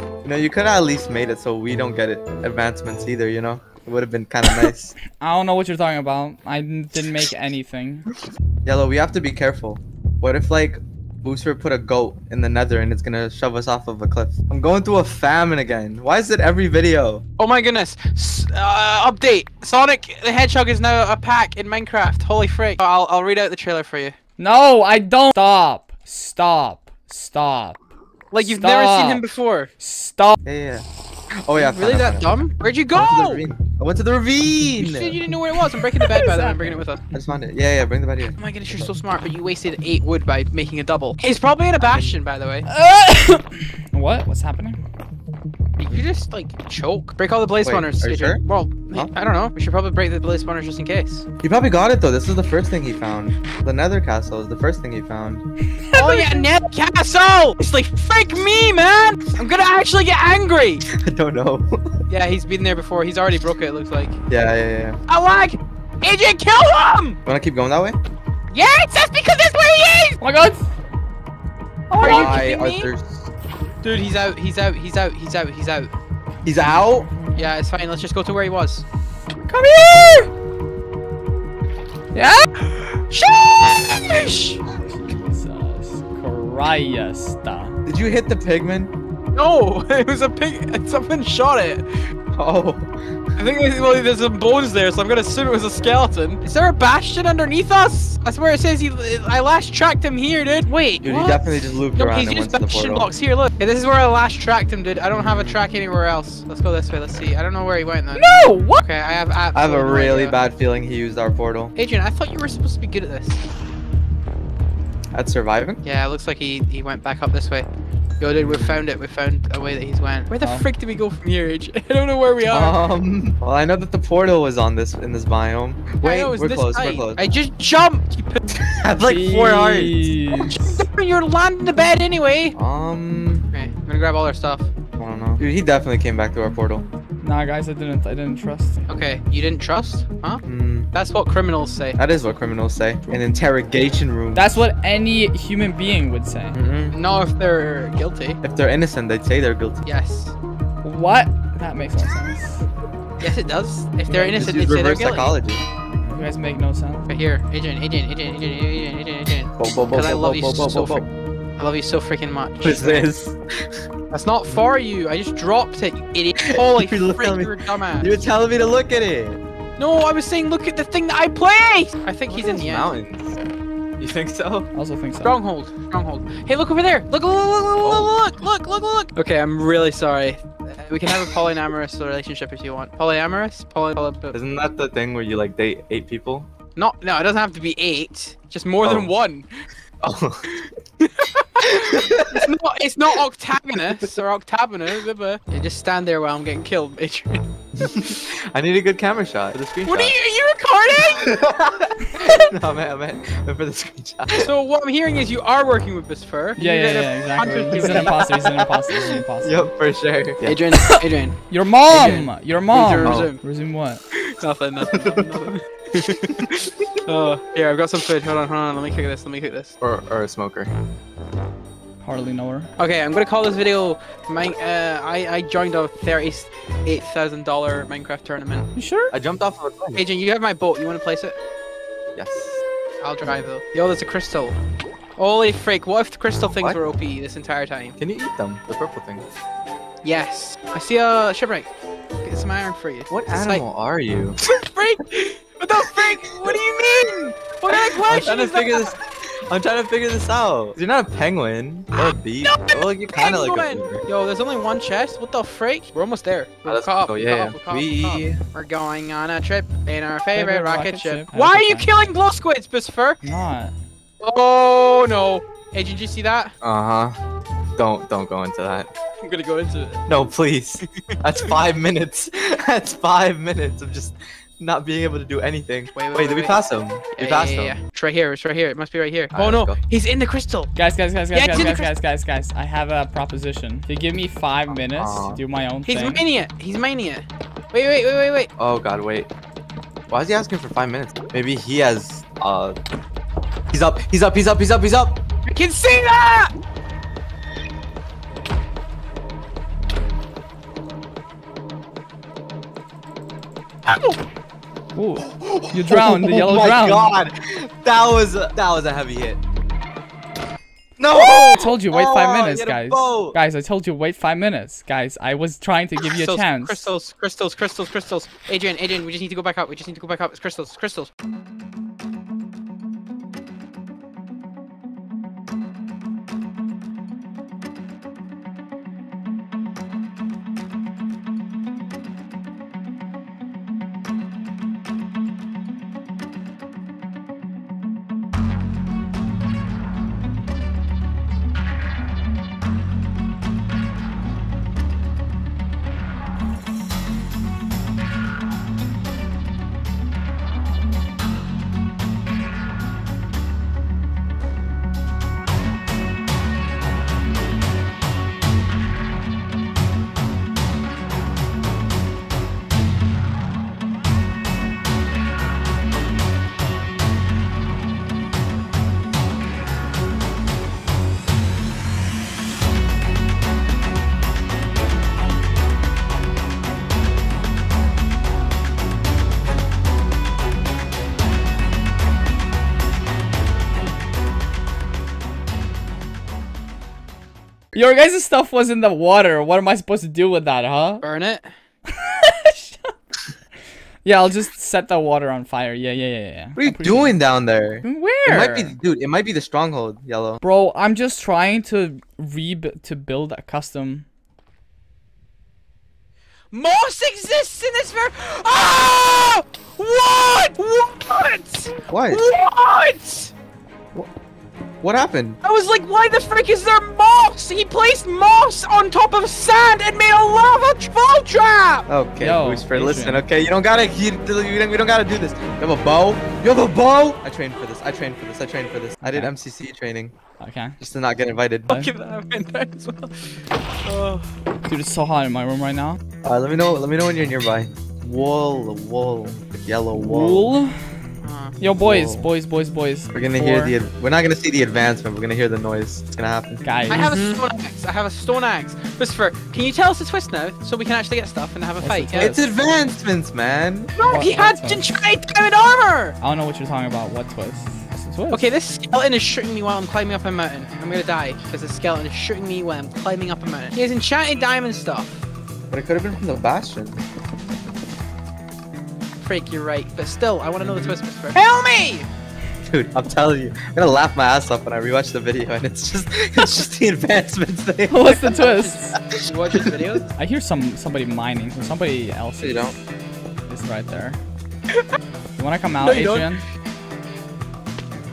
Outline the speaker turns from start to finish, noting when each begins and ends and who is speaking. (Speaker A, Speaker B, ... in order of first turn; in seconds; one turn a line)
Speaker A: 0.2-5.0
Speaker B: 5.1-8.1
Speaker A: 8.7-17.2
Speaker C: 17.4-24.1
Speaker B: 24.4-27.8
Speaker C: 28.3-29.7
Speaker B: 28.4-29.2
Speaker B: 29.8-30.4
Speaker A: 30.4-30.9
Speaker A: 31.4-32.4
Speaker C: 31.5-33.5
Speaker A: 32.9-35.2
Speaker C: 34.8-37.0
Speaker B: 35.9-36.9
Speaker A: 37.1-38.4
Speaker C: 38.4-42.7
Speaker B: 42.7-44.8
Speaker C: 45.8-51.3
Speaker A: 47.6-48.4
Speaker A: 51.4-55.4
Speaker B: 55.9-56.4
Speaker C: 55.9-60.9
Speaker A: 60.9-61.9
Speaker C: 62.1-64.2
Speaker A: 64.3-65.0
Speaker C: 65.1-67.2
Speaker A: 67.3-68.0
Speaker C: 68.5-70.2
Speaker B: 70.2-70.6
Speaker B: 71.9-72.4
Speaker C: 72.0-72.9
Speaker A: 72.0-73.3
Speaker C: 73.8-75.9
Speaker A: 76.5-77.1
Speaker C: 77.3-78.8
Speaker B: 79.5-80.3
Speaker B: 82.1-82.5
Speaker C: 82.8-84.6
Speaker B: 84.9-87.8
Speaker A: 87.9-88.9
Speaker C: 89.3-92.1
Speaker A: 92.3-92.9
Speaker C: 93.4-110.4
Speaker A: 101.0-103.1
Speaker A: 105.1-105.6
Speaker B: 108.2-108.8
Speaker A: 109.5-111.7
Speaker C: 111.8-113.4
Speaker A: 115.1-115.8
Speaker C: 115.8-117.7
Speaker C: 118.2-122.8
Speaker A: 118.4-118.8
Speaker B: 120.4-120.7
Speaker A: 122.5-127.2
Speaker C: 126.0-128.4
Speaker A: 128.6-130.2
Speaker B: 129.0-130.7
Speaker C: 130.3-132.6
Speaker A: 132.6-133.5
Speaker C: 133.5-134.7
Speaker A: 135.0-136.8
Speaker B: 137.2-138.8
Speaker C: 138.9-142.0
Speaker A: 140.4-140.9
Speaker A: 142.0-144.7
Speaker B: 144.3-146.6
Speaker A: 146.5-147.0
Speaker C: 146.9-148.4
Speaker A: 148.4-149.8
Speaker C: 149.9-150.3
Speaker B: 150.8-152.6
Speaker C: 153.2-155.3
Speaker A: 154.1-155.6
Speaker B: 156.1-157.1
Speaker C: 157.1-161.1
Speaker A: 159.5-161.1
Speaker C: 161.6-163.1
Speaker A: 162.6-163.8
Speaker C: 164.1-168.2
Speaker A: 166.4-169.4
Speaker C: 169.8-172.9
Speaker A: 172.3-173.4
Speaker A: 174.0-174.7
Speaker B: 174.7-175.4
Speaker C: 175.2-184.4
Speaker A: 177.8-178.2
Speaker A: 184.3-186.5
Speaker C: 186.8-189.7
Speaker A: 188.8-189.1
Speaker A: 190.0-190.5
Speaker C: 190.6-198.1
Speaker A: 191.6-192.5
Speaker A: 197.8-200.2
Speaker C: 199.9-201.4
Speaker A: 201.1-204.5
Speaker C: 204.3-208.5
Speaker B: 206.6-209.7
Speaker A: 207.7-210.6
Speaker C: 210.4-211.4
Speaker B: 210.8-214.0
Speaker A: 211.9-212.3
Speaker C: 211.9-213.4
Speaker A: 213.0-213.3
Speaker C: 214.1-219.8
Speaker A: 214.9-215.4
Speaker A: 219.8-220.7
Speaker B: 222.0-222.7
Speaker C: 222.8-228.7
Speaker B: 228.8-229.1
Speaker A: 229.1-230.0
Speaker C: 230.0-231.3
Speaker A: 232.2-232.6
Speaker C: 233.0-234.6
Speaker C: 235.2-238.0
Speaker A: 238.0-239.3
Speaker C: 240.0-241.7
Speaker C: 242.2-243.6
Speaker A: 243.1-244.4
Speaker C: 244.4-248.9
Speaker A: 246.0-246.6
Speaker A: 247.7-254.1
Speaker C: 251.9-263.2
Speaker A: 256.7-258.4
Speaker B: 260.3-261.9
Speaker B: 263.2-263.7
Speaker C: 264.2-266.5
Speaker A: 266.6-267.2
Speaker A: 267.8-268.9
Speaker C: 269.2-270.0
Speaker A: 270.1-277.8
Speaker C: 275.9-280.7
Speaker A: 279.3-279.8
Speaker B: 280.8-286.2
Speaker C: 281.3-281.9
Speaker A: 284.8-285.4
Speaker C: 285.9-288.5
Speaker A: 288.6-289.3
Speaker A: 290.1-292.8
Speaker A: 293.7-295.2
Speaker C: 295.5-296.5
Speaker C: 303.9-304.2
Speaker B: 305.0-307.1
Speaker A: 305.2-309.4
Speaker A: 311.0-313.4
Speaker B: 311.6-316.9
Speaker C: 316.1-321.1
Speaker B: 387.7-391.0
Speaker C: 391.0-391.5
Speaker B: 392.0-392.9
Speaker B: 394.1-397.1
Speaker A: 396.6-400.4
Speaker B: 397.8-398.8
Speaker C: 398.3-398.5
Speaker B: 400.4-404.1
Speaker C: 406.5-413.3
Speaker A: 411.9-412.2
Speaker A: 414.8-415.4
Speaker C: 415.4-421.9
Speaker A: 421.9-430.1
Speaker B: 422.2-423.2
Speaker B: 429.0-429.3
Speaker B: 430.4-430.8
Speaker A: 430.8-431.9
Speaker C: 431.7-433.2
Speaker C: 433.9-434.3
Speaker B: 434.7-436.0
Speaker A: 436.2-440.5
Speaker B: 440.0-440.8
Speaker C: 441.2-441.6
Speaker B: 441.6-443.8
Speaker A: 441.8-442.3
Speaker A: 443.1-447.2
Speaker B: 446.6-447.4
Speaker C: 446.9-452.4
Speaker B: 451.8-452.4
Speaker A: 452.2-453.9
Speaker C: 454.0-456.2
Speaker B: 454.0-454.8
Speaker B: 456.2-458.5
Speaker C: 458.3-465.2
Speaker A: 465.7-467.0
Speaker C: 469.2-472.1
Speaker A: 472.6-478.3
Speaker B: 477.9-479.0
Speaker C: 478.2-480.1
Speaker A: 479.1-479.9
Speaker B: 480.2-482.8
Speaker A: 482.4-482.8
Speaker B: 483.5-484.2
Speaker B: 485.4-486.4
Speaker C: 485.8-486.3